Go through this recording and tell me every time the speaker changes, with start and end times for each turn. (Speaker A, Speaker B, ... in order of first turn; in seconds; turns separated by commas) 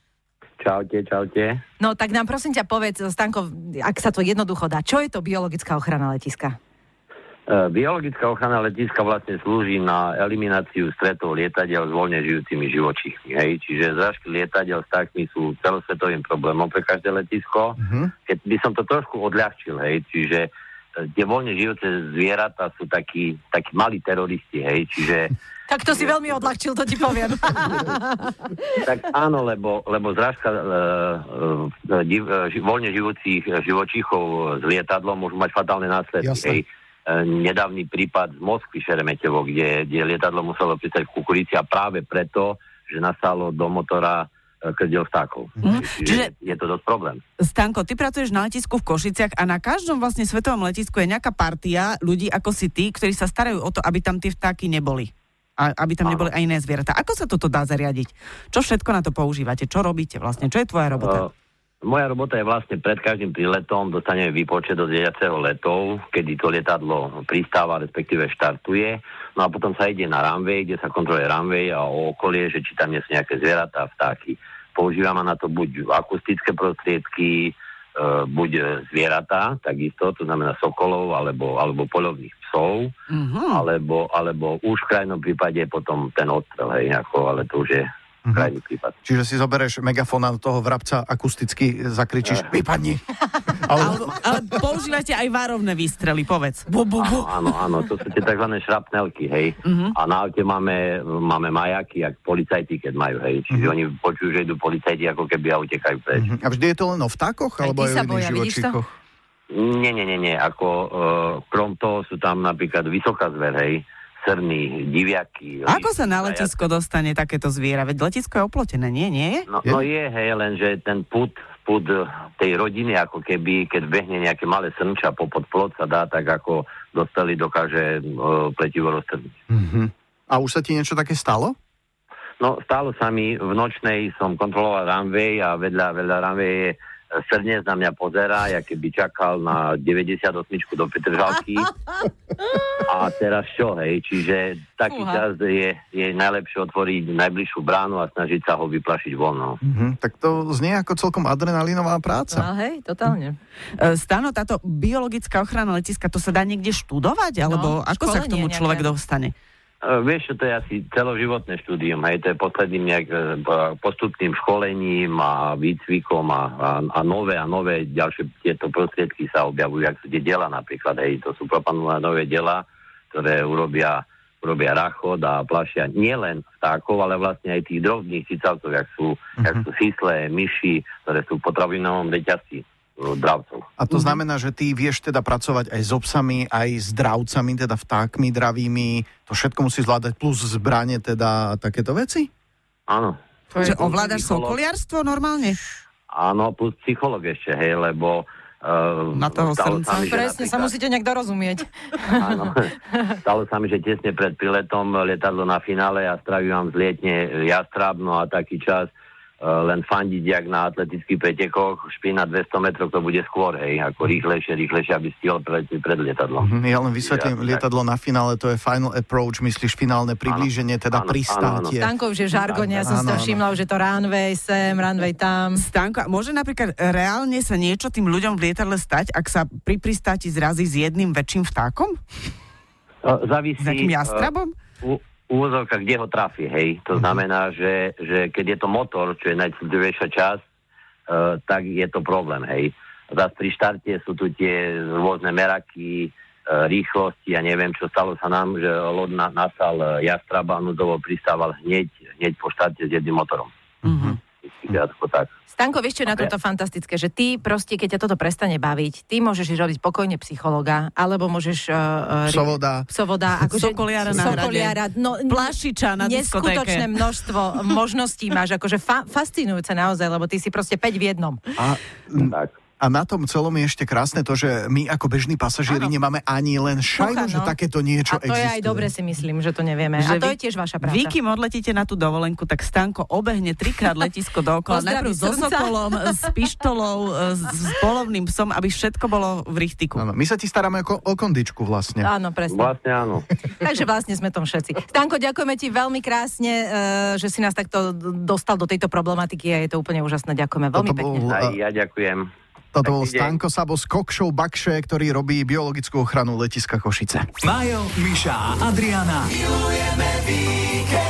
Speaker A: 0.6-1.6, Speaker B: 1.8-6.5, Speaker A: 7.5-20.5, Speaker C: 17.8-18.1, Speaker A: 21.1-25.3, Speaker B: 25.7-28.5, Speaker A: 28.8-47.2, Speaker C: 36.2-36.6, Speaker D: 45.6-46.3, Speaker D: 47.4-61.2, Speaker A: 56.0-56.3, Speaker A: 61.0-61.3, Speaker A: 61.8-82.9, Speaker D: 83.1-83.7, Speaker A: 83.5-88.9, Speaker C: 88.2-88.5, Speaker C: 89.0-94.2, Speaker D: 93.8-97.5, Speaker A: 97.0-106.2, Speaker D: 99.6-99.9, Speaker C: 106.1-108.9, Speaker B: 107.6-108.8, Speaker A: 109.5-116.5, Speaker D: 115.7-119.5, Speaker A: 119.5-129.3, Speaker C: 129.5-131.5, Speaker A: 132.4-141.7, Speaker A: 142.8-149.6, Speaker B: 144.9-145.2, Speaker C: 149.6-152.5, Speaker B: 152.3-153.4, Speaker D: 153.8-159.3, Speaker B: 157.4-158.9, Speaker A: 159.8-183.7, Speaker C: 183.8-192.3, Speaker D: 183.9-184.2, Speaker A: 192.9-194.6, Speaker D: 193.5-195.6, Speaker A: 196.1-200.7, Speaker D: 199.1-200.2, Speaker B: 200.1-202.3, Speaker A: 202.2-216.5, Speaker C: 216.4-221.9, Speaker A: 217.0-217.6, Speaker A: 220.3-221.7, Speaker B: 221.8-225.6, Speaker A: 222.3-223.0, Speaker C: 222.8-223.4, Speaker D: 225.6-232.0, Speaker A: 233.0-234.3, Speaker D: 233.6-234.5, Speaker A: 234.8-240.4, Speaker A: 241.1-253.5, Speaker C: 253.8-254.2, Speaker D: 253.8-254.2, Speaker A: 254.4-255.3, Speaker B: 255.5-271.4, Speaker C: 262.3-262.9, Speaker D: 263.5-267.0, Speaker C: 271.6-278.9, Speaker A: 272.2-272.5, Speaker B: 277.0-281.1, Speaker D: 280.0-290.0, Speaker B: 284.7-286.2, Speaker C: 289.9-292.1, Speaker B: 292.0-292.7, Speaker A: 292.5-293.2, Speaker B: 293.4-301.2, Speaker C: 300.7-301.6, Speaker A: 301.3-302.3, Speaker C: 302.7-307.3, Speaker A: 302.8-303.4, Speaker E: 307.4-310.7